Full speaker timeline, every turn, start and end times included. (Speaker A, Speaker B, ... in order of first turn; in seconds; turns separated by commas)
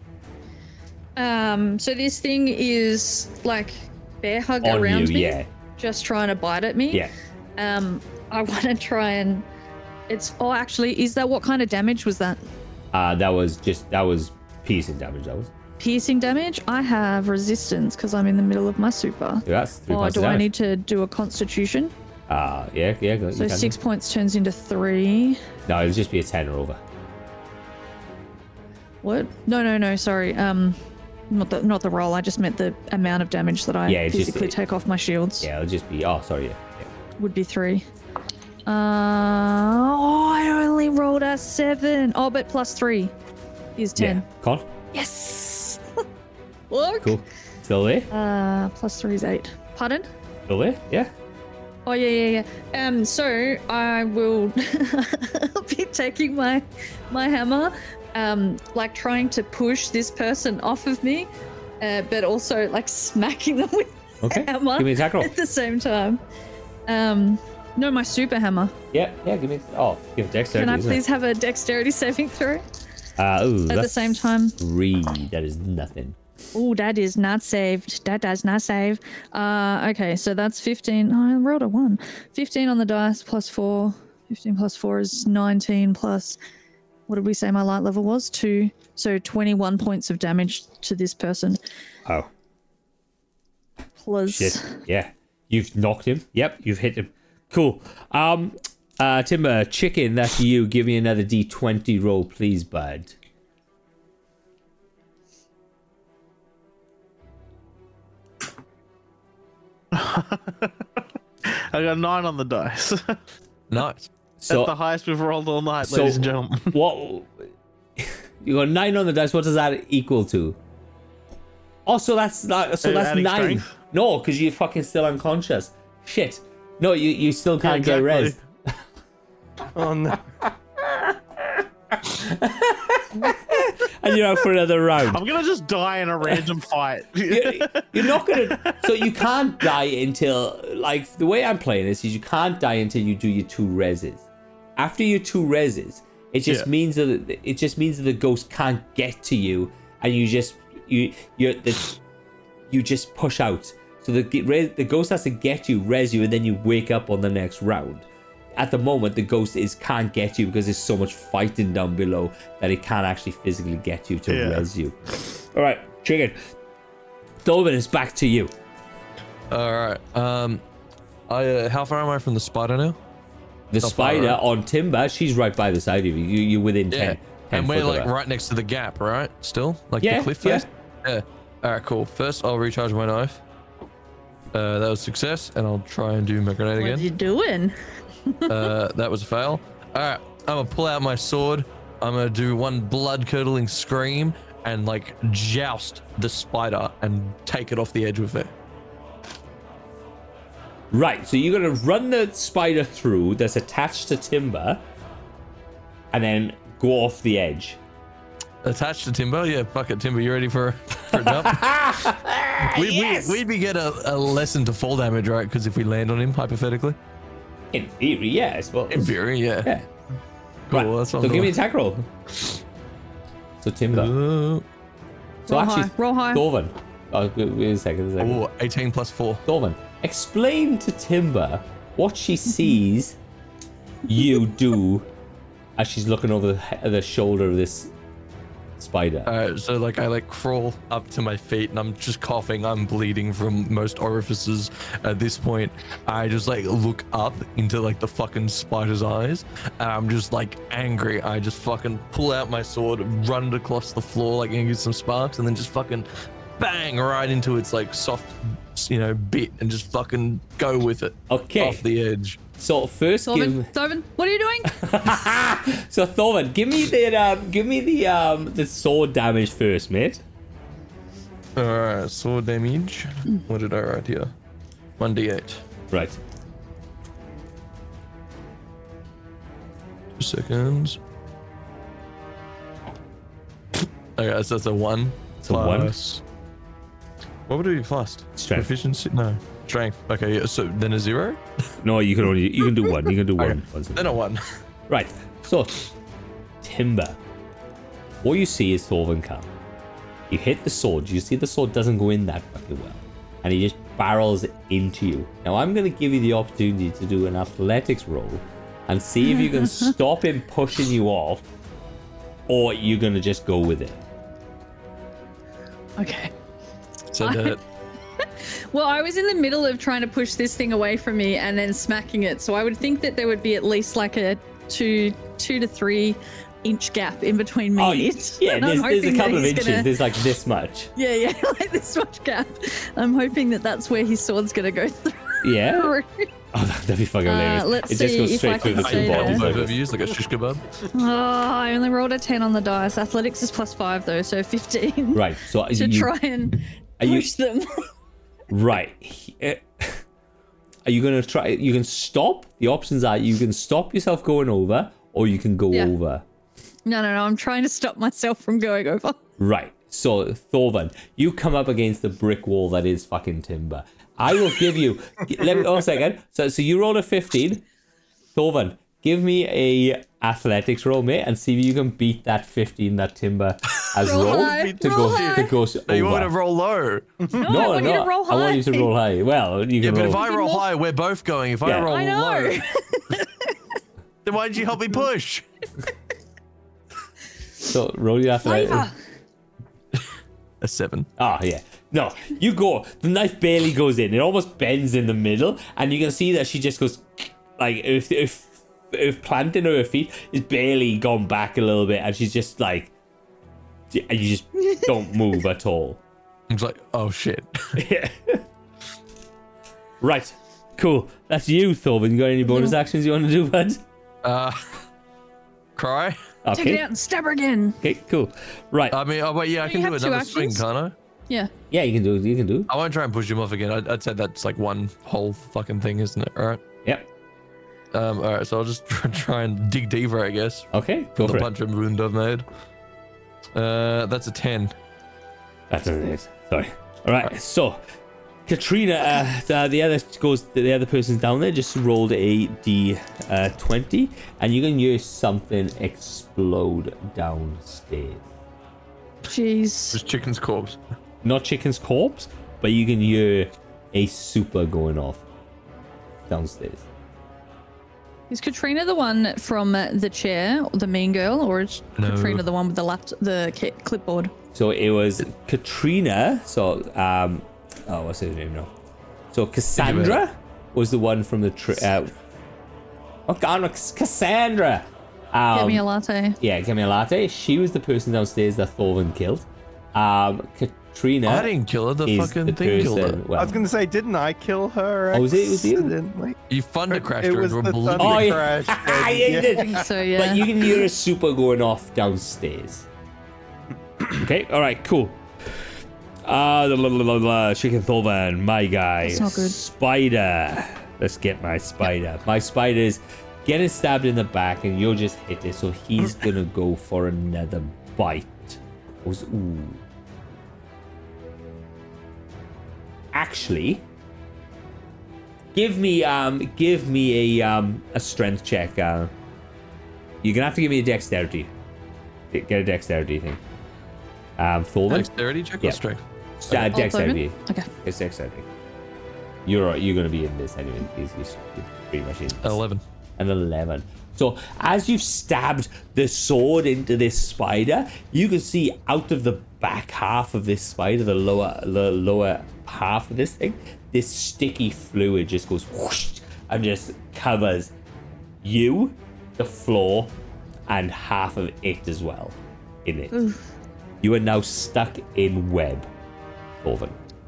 Speaker A: 1.2-7.0, Speaker B: 4.6-5.5, Speaker A: 7.6-9.4, Speaker A: 10.1-12.4, Speaker B: 12.9-15.5, Speaker A: 15.8-21.9, Speaker B: 19.4-20.5, Speaker B: 22.3-23.8, Speaker A: 23.3-25.4, Speaker B: 25.6-26.8, Speaker A: 29.0-30.8, Speaker A: 31.3-35.5, Speaker B: 33.9-34.6, Speaker B: 35.4-36.9, Speaker A: 37.2-37.9, Speaker A: 38.6-43.1, Speaker A: 43.8-44.2, Speaker B: 44.0-44.7, Speaker A: 44.9-45.8, Speaker A: 46.7-47.2, Speaker B: 47.0-48.1, Speaker A: 48.1-50.1, Speaker B: 50.5-51.1, Speaker A: 51.9-61.3, Speaker A: 61.8-66.2, Speaker B: 64.2-65.3, Speaker A: 66.9-68.7, Speaker B: 68.9-71.0, Speaker A: 70.5-72.6, Speaker B: 73.2-76.2, Speaker A: 73.7-74.6, Speaker A: 76.5-86.4, Speaker A: 87.1-91.6, Speaker A: 94.0-94.8, Speaker B: 94.3-103.1, Speaker C: 109.9-110.8, Speaker C: 111.7-113.2, Speaker D: 113.7-114.1, Speaker B: 114.4-114.7, Speaker C: 114.5-116.7, Speaker B: 115.8-120.6, Speaker B: 121.8-128.4, Speaker C: 122.8-123.7, Speaker C: 127.6-128.4, Speaker E: 129.7-130.2, Speaker B: 130.8-135.2, Speaker C: 135.1-138.8, Speaker B: 137.3-144.2, Speaker B: 144.8-152.0, Speaker B: 152.7-166.4, Speaker C: 164.3-164.6, Speaker B: 167.4-168.5, Speaker D: 169.5-170.6, Speaker D: 171.3-173.0, Speaker B: 173.7-178.1, Speaker D: 173.8-174.4, Speaker D: 176.9-183.4, Speaker B: 180.0-180.7, Speaker D: 184.5-187.1, Speaker A: 186.8-188.7, Speaker D: 188.5-198.5, Speaker B: 200.9-204.8, Speaker B: 206.1-207.8, Speaker D: 208.6-211.7, Speaker B: 211.1-213.4, Speaker D: 212.6-217.0, Speaker B: 217.7-219.9, Speaker D: 218.9-219.7, Speaker D: 220.7-221.6, Speaker B: 220.7-222.1, Speaker B: 223.6-224.1, Speaker D: 223.9-224.6, Speaker B: 225.4-228.4, Speaker A: 225.5-226.4, Speaker D: 228.2-229.4, Speaker B: 229.4-233.2, Speaker B: 234.1-235.1, Speaker B: 235.8-237.9, Speaker B: 238.8-239.3, Speaker D: 239.2-262.4, Speaker B: 261.3-261.8, Speaker B: 262.6-263.7, Speaker A: 263.3-264.8, Speaker B: 264.7-270.2, Speaker D: 271.6-274.3, Speaker D: 275.0-275.6, Speaker B: 275.9-276.2, Speaker D: 280.1-281.0, Speaker D: 284.2-286.2, Speaker B: 285.4-285.9, Speaker D: 287.5-291.4, Speaker B: 288.4-288.7, Speaker B: 291.8-294.2, Speaker D: 293.4-294.4, Speaker B: 294.9-295.8, Speaker B: 296.6-297.2, Speaker B: 298.2-299.5, Speaker B: 300.3-311.4, Speaker B: 312.5-314.0, Speaker A: 316.0-316.3, Speaker D: 317.1-317.6, Speaker A: 317.2-317.6, Speaker A: 318.2-330.0, Speaker B: 327.8-330.9, Speaker A: 330.9-336.3, Speaker B: 335.4-335.9, Speaker B: 336.5-339.8, Speaker A: 337.2-339.5, Speaker D: 338.6-340.6, Speaker A: 340.9-347.9, Speaker B: 345.1-346.1, Speaker B: 347.0-347.3, Speaker B: 348.5-350.0, Speaker B: 350.8-356.2, Speaker A: 356.9-359.2, Speaker B: 359.4-367.6, Speaker B: 368.3-376.3, Speaker A: 374.0-375.5, Speaker D: 374.1-377.1, Speaker A: 377.3-378.9, Speaker B: 377.4-380.2, Speaker D: 379.8-382.6, Speaker A: 380.0-380.7, Speaker B: 381.6-381.9, Speaker A: 381.9-383.5, Speaker D: 384.2-385.4, Speaker B: 387.6-388.9, Speaker A: 388.4-388.9, Speaker D: 390.6-391.1, Speaker B: 391.2-402.9, Speaker B: 403.9-406.0, Speaker D: 406.5-407.8, Speaker B: 407.8-408.4, Speaker B: 410.0-413.8, Speaker A: 412.4-412.7, Speaker D: 414.2-414.8, Speaker D: 415.8-416.2, Speaker B: 416.4-416.8, Speaker A: 416.5-417.8, Speaker B: 417.8-419.0, Speaker D: 418.9-420.9, Speaker A: 419.6-420.6, Speaker B: 421.7-422.7, Speaker D: 422.7-426.6, Speaker D: 427.9-432.4, Speaker B: 430.7-431.5, Speaker D: 433.5-434.7, Speaker B: 435.7-437.8, Speaker B: 438.4-448.2, Speaker A: 449.3-450.0, Speaker D: 449.9-450.8, Speaker B: 451.2-455.2, Speaker B: 456.3-456.8, Speaker A: 458.3-464.3, Speaker D: 462.0-462.4, Speaker B: 464.5-468.7, Speaker B: 469.3-472.1, Speaker D: 469.8-470.2, Speaker B: 473.3-475.8, Speaker A: 475.5-476.4, Speaker B: 476.4-481.5, Speaker D: 481.2-483.2, Speaker B: 482.0-483.6, Speaker E: 483.3-486.4, Speaker B: 485.1-485.9, Speaker D: 486.5-488.5, Speaker E: 486.9-489.8, Speaker B: 488.0-492.9, Speaker A: 489.5-490.5, Speaker B: 494.2-495.7, Speaker B: 496.2-509.8, Speaker A: 499.0-499.6, Speaker B: 513.1-513.8, Speaker B: 515.5-519.1, Speaker B: 520.2-521.5, Speaker B: 522.3-523.4, Speaker B: 524.4-525.1, Speaker D: 524.9-526.7, Speaker B: 526.4-528.5, Speaker A: 526.7-527.7, Speaker B: 529.4-532.6, Speaker D: 532.4-532.8, Speaker B: 533.2-547.7, Speaker B: 548.4-550.1, Speaker B: 550.7-553.1, Speaker A: 553.1-553.4, Speaker B: 554.0-555.9, Speaker B: 556.6-557.0